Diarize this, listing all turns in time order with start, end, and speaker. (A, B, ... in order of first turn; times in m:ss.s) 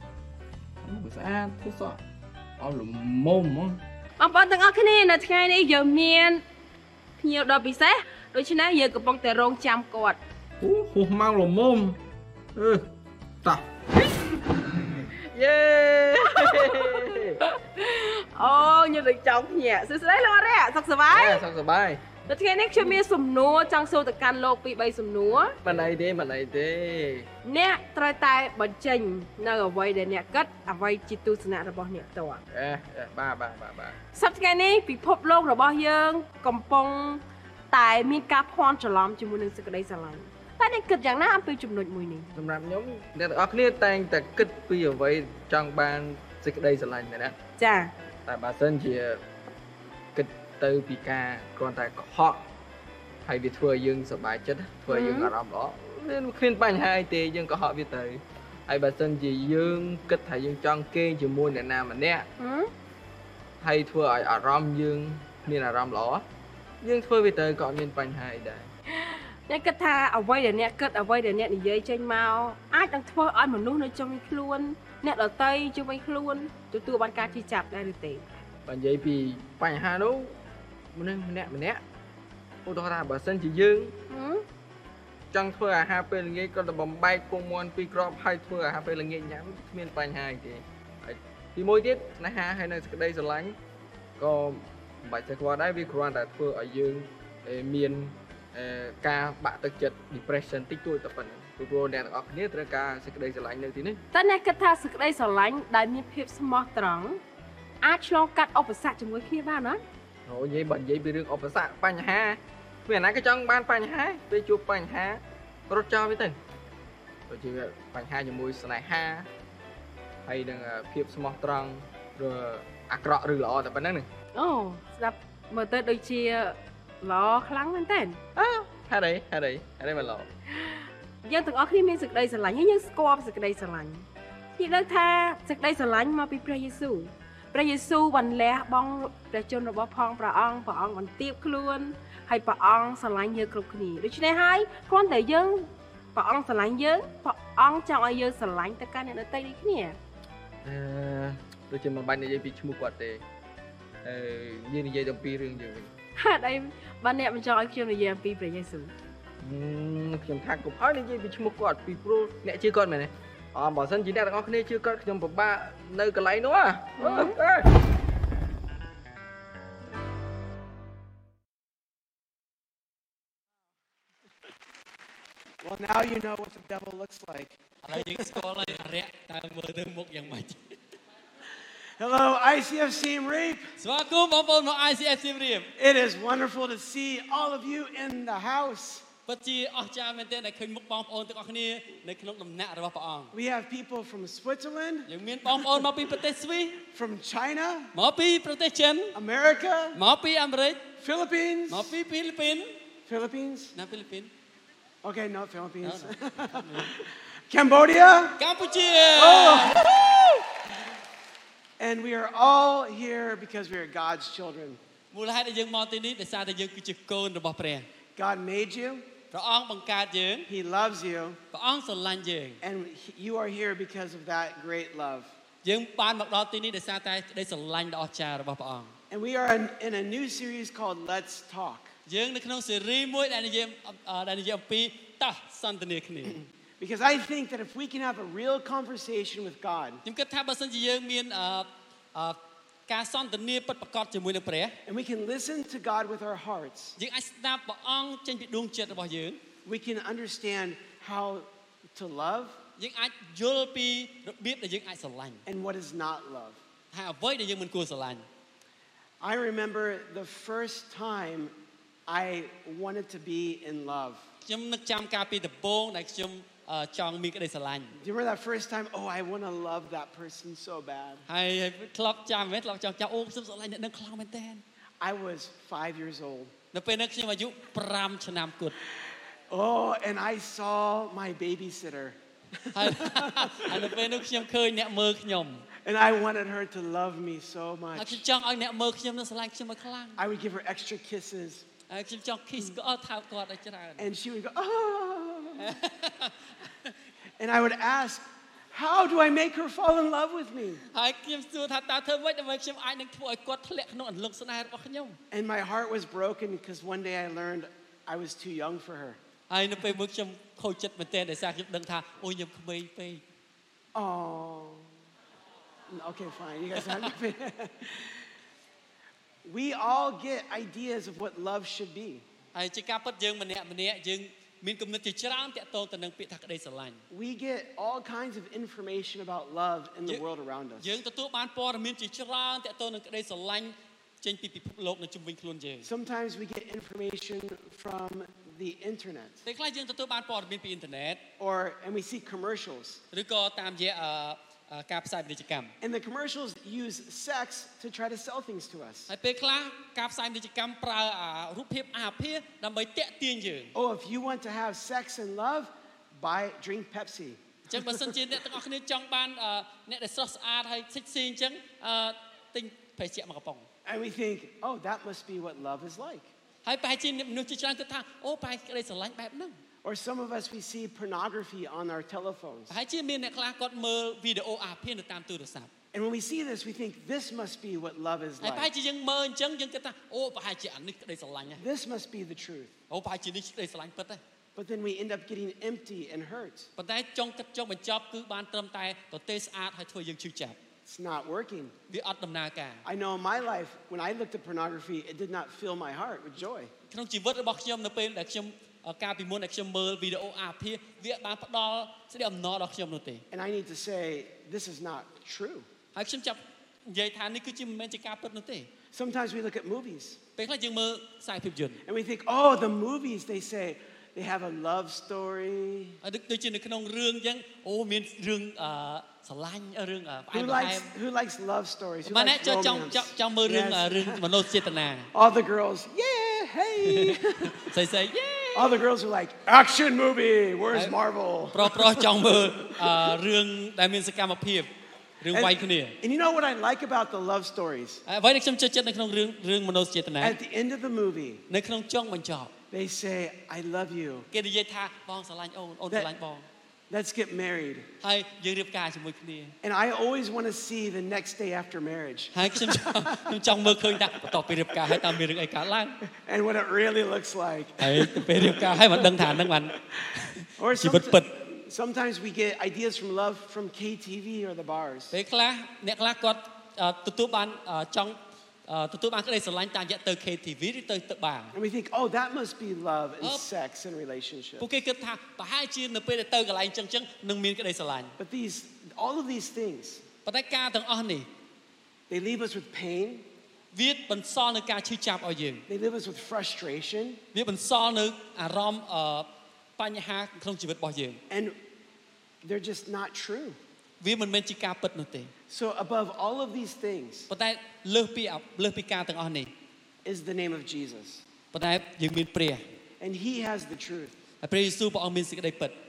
0:00.8-0:02.0 A
0:02.6-0:03.8 A
0:04.2-0:06.4 B
0:07.2-0:10.2 B
0:10.6-0:12.0 A
0:12.6-0:12.9 A
0:13.4-0:14.2 A
0:14.9-0:17.4 A
0:16.3-0:21.4 B
0:21.1-0:22.1 A
0:22.3-0:25.6 B
0:25.6-0:27.3 A
0:27.4-0:32.4 B
0:32.5-0:34.0 A
0:34.1-0:42.3 B
0:42.4-0:47.4 A
0:47.6-0:47.9 B
0:48.2-0:49.2 A
0:50.2-0:52.4 A
0:53.2-1:02.3 A
0:54.9-0:55.3 B
1:02.4-1:02.7 B
1:03.6-1:06.2 A
1:06.8-1:08.7 A
1:08.9-1:18.2 B
1:18.7-1:20.4 A
1:20.9-1:21.8 A
1:22.6-1:24.0 A
1:24.1-1:24.4 B
1:25.3-1:33.6 A
1:34.2-1:44.0 A
1:44.1-1:47.2 B
1:47.8-1:49.8 B
1:50.3-1:56.4 A
1:57.3-1:59.3 A
2:00.2-2:04.1 A
2:04.3-2:08.2 B
2:08.4-2:10.3 A
2:10.6-2:14.0 B
2:14.6-2:30.0 B
2:30.6-2:33.2 A
2:34.0-2:35.9 A
2:36.2-2:38.9 B
2:39.4-2:47.7 A
2:47.0-2:47.4 B
2:55.6-2:58.6 C
2:57.8-3:00.8 D
3:02.0-3:03.7 C
3:03.8-3:05.7 D
3:05.8-3:09.0 C
3:09.3-3:13.3 D
3:13.3-3:15.9 C
3:15.1-3:16.8 D
3:16.9-3:17.9 C
3:18.0-3:19.2 D
3:19.1-3:20.0 C
3:20.0-3:20.9 D
3:21.0-3:21.9 C
3:21.7-3:22.7 D
3:23.1-3:23.8 C
3:23.8-3:24.3 D
3:25.0-3:28.4 C
3:25.8-3:26.9 D
3:28.4-3:29.9 D
3:29.2-3:30.5 C
3:31.8-3:34.8 C
3:35.1-3:37.9 D
3:38.2-3:39.1 C
3:39.3-3:40.5 D
3:40.5-3:41.4 C
3:41.5-3:42.6 D
3:42.6-3:45.3 C
3:45.6-3:49.0 D
3:49.1-3:51.9 C
3:52.1-3:56.4 D
3:56.3-4:00.0 C
4:00.0-4:04.8 D
4:04.9-4:07.0 C
4:07.0-4:09.4 D
4:09.6-4:12.6 C
4:12.8-4:15.4 D
4:15.5-4:16.6 C
4:16.9-4:18.3 D
4:19.2-4:21.5 C
4:22.1-4:24.2 C
4:24.5-4:28.0 D
4:28.0-4:31.2 C
4:31.3-4:34.6 D
4:35.0-4:36.5 C
4:36.7-4:38.8 D
4:39.5-4:44.0 C
4:42.7-4:45.7 D
4:45.8-4:48.2 C
4:48.0-4:50.2 D
4:50.2-4:51.7 C
4:51.9-4:54.1 D
4:54.0-4:55.7 C
4:55.6-4:56.9 D
4:57.4-5:00.8 C
5:00.9-5:05.2 D
5:05.3-5:09.2 C
5:09.5-5:13.2 D
5:14.0-5:14.9 C
5:15.9-5:18.3 C
5:16.8-5:17.1 D
5:19.4-5:22.2 C
5:22.6-5:27.0 D
5:27.1-5:31.0 C
5:30.8-5:35.9 D
5:35.8-5:39.4 C
5:39.4-5:41.2 D
5:41.4-5:43.0 C
5:43.1-5:45.7 D
5:45.8-5:49.1 C
5:49.1-5:53.7 D
5:53.8-5:58.2 C
5:57.7-6:03.7 D
6:03.8-6:06.3 C
6:06.6-6:09.6 D
6:09.8-6:12.8 C
6:12.7-6:15.7 D
6:15.9-6:18.7 C
6:18.4-6:21.6 D
6:21.6-6:22.7 C
6:22.9-6:24.2 D
6:24.6-6:26.7 C
6:26.8-6:30.6 D
6:30.9-6:31.7 C
6:31.9-6:32.8 D
6:32.8-6:36.7 C
6:36.9-6:43.2 D
6:43.3-6:45.7 C
6:46.0-6:48.7 D
6:48.9-6:50.2 C
6:50.4-6:51.8 D
6:51.9-6:56.0 C
6:56.0-7:00.9 D
7:00.3-7:04.2 C
7:02.0-7:05.1 D
7:05.1-7:07.7 C
7:06.8-7:08.8 D
7:08.5-7:13.2 C
7:11.5-7:14.7 D
7:15.2-7:16.0 D
7:15.3-7:18.0 C
7:18.1-7:20.4 D
7:20.2-7:21.4 C
7:21.5-7:22.5 D
7:22.7-7:24.3 C
7:24.3-7:26.5 D
7:26.9-7:27.9 C
7:28.0-7:29.5 D
7:29.6-7:35.2 C
7:32.4-7:36.0 D
7:36.0-7:45.2 C
7:37.8-7:41.3 D
7:45.1-7:51.6 D
7:51.5-7:54.7 C
7:54.6-7:58.2 D
7:58.2-8:00.0 C
8:00.3-8:01.3 D
8:02.1-8:03.3 C
8:03.7-8:05.7 D
8:05.7-8:07.2 C
8:07.3-8:09.3 D
8:09.8-8:11.2 D
8:11.3-8:11.6 C
8:12.4-8:13.6 C
8:14.0-8:15.3 D
8:15.5-8:17.3 C
8:17.3-8:19.5 D
8:20.0-8:21.2 C
8:21.5-8:22.6 D
8:23.0-8:24.2 C
8:24.4-8:25.8 D